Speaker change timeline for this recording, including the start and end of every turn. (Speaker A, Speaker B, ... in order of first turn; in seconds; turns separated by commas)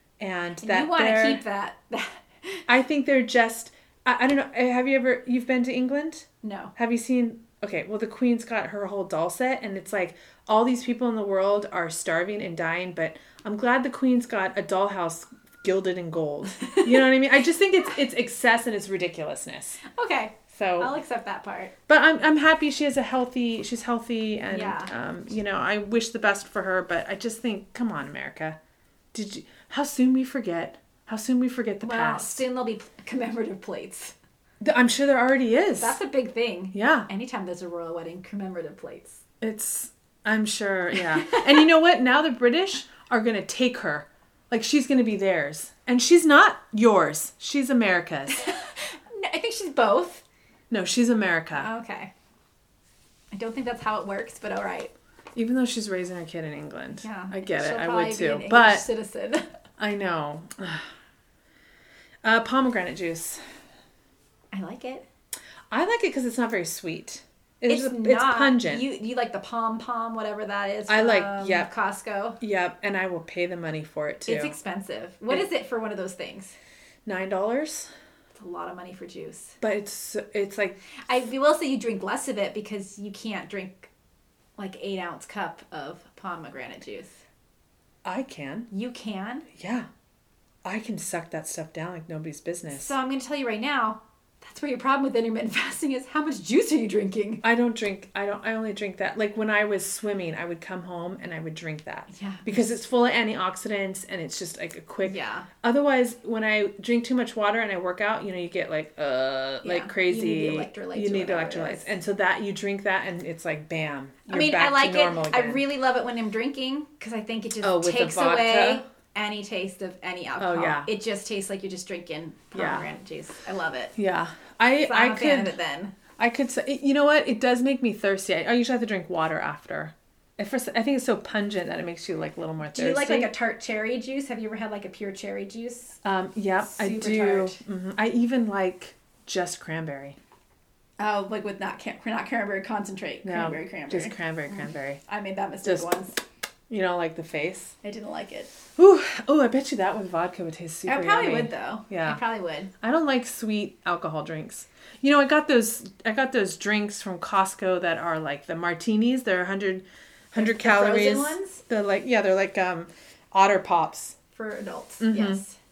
Speaker A: 0.2-1.4, Speaker B: 0.6-2.6, Speaker A: 2.7-19.8, Speaker B: 6.4-6.7, Speaker B: 16.6-17.1, Speaker B: 19.9-21.7, Speaker A: 20.5-20.9, Speaker A: 21.9-28.6, Speaker B: 24.5-24.9, Speaker A: 29.1-32.4, Speaker B: 31.8-34.1, Speaker A: 34.6-36.0, Speaker B: 35.8-39.2, Speaker A: 36.7-37.1, Speaker A: 39.4-48.5, Speaker B: 41.0-41.7, Speaker B: 48.3-50.2, Speaker A: 50.7-51.7, Speaker B: 51.5-52.1, Speaker B: 53.3-54.9, Speaker A: 55.4-58.9, Speaker B: 57.0-59.5, Speaker A: 59.8-60.9, Speaker A: 62.2-63.4, Speaker B: 64.5-65.1, Speaker A: 65.7-68.9, Speaker B: 67.7-72.4, Speaker A: 70.9-71.7, Speaker A: 72.4-74.5, Speaker B: 74.3-76.5, Speaker A: 77.1-77.9, Speaker B: 78.3-79.6, Speaker A: 79.6-80.8, Speaker B: 81.1-83.9, Speaker B: 84.6-87.2, Speaker A: 88.0-88.7, Speaker B: 88.7-89.5, Speaker A: 89.5-89.9, Speaker A: 90.6-92.9, Speaker B: 92.7-97.4, Speaker A: 97.4-115.6, Speaker B: 102.1-102.6, Speaker B: 105.0-105.5, Speaker B: 109.6-111.9, Speaker B: 114.3-124.0, Speaker A: 117.6-118.8, Speaker A: 120.4-120.9, Speaker A: 122.5-122.8, Speaker A: 124.0-125.6, Speaker B: 124.8-126.0, Speaker A: 126.2-133.3, Speaker B: 132.7-136.0, Speaker A: 136.0-140.2, Speaker B: 136.7-137.6, Speaker B: 141.0-146.2, Speaker A: 143.2-145.0, Speaker A: 145.6-145.9, Speaker A: 146.7-147.8, Speaker B: 147.8-148.5, Speaker A: 148.8-152.2, Speaker B: 150.9-152.7, Speaker A: 152.8-164.2, Speaker B: 160.4-161.6, Speaker B: 164.3-165.6, Speaker A: 165.0-165.4